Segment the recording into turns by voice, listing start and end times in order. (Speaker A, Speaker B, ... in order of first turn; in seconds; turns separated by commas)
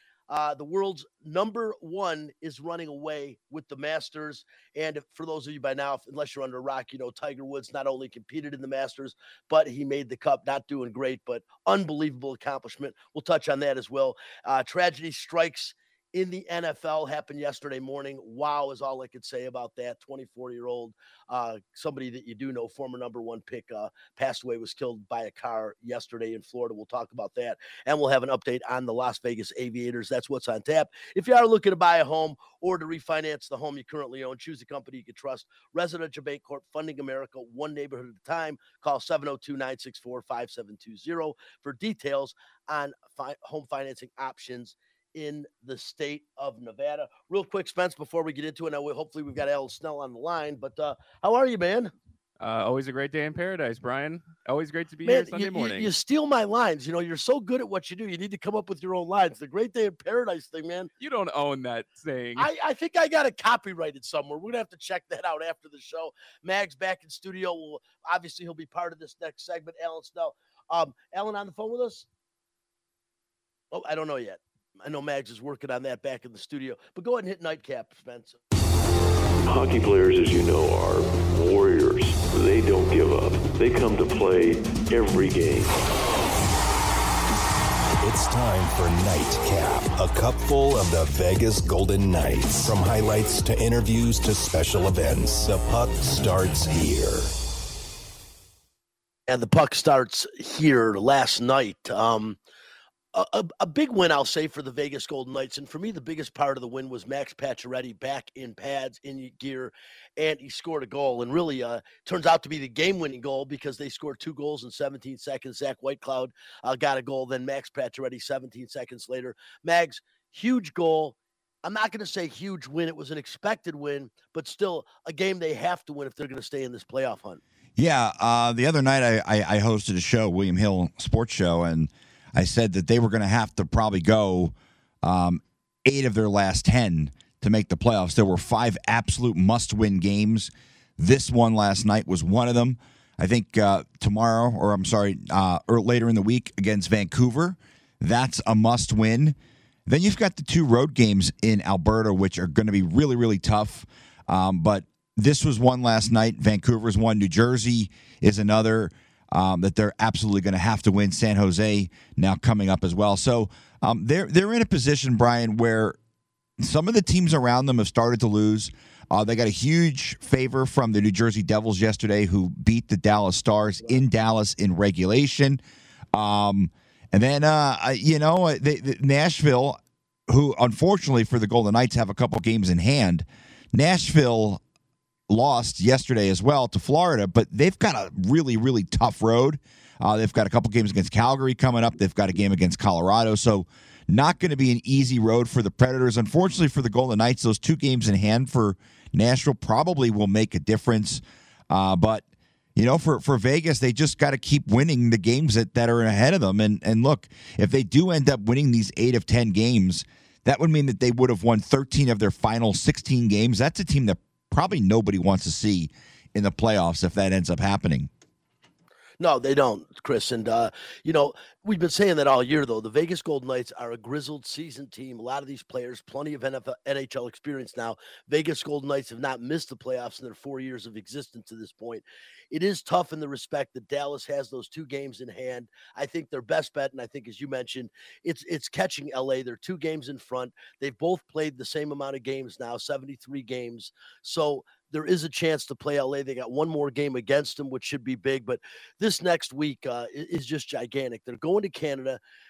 Speaker A: 0.3-51.9, Speaker B: 52.4-55.9, Speaker A: 55.0-60.9, Speaker B: 61.0-62.5, Speaker A: 62.4-72.1, Speaker A: 73.7-78.4, Speaker C: 79.5-85.8, Speaker D: 88.0-97.3, Speaker A: 99.3-102.4, Speaker A: 103.1-127.4, Speaker E: 127.8-149.4, Speaker E: 149.9-166.0, Speaker E: 166.6-175.6, Speaker E: 176.1-184.6, Speaker E: 185.3-202.2, Speaker E: 202.8-218.1, Speaker A: 219.2-252.2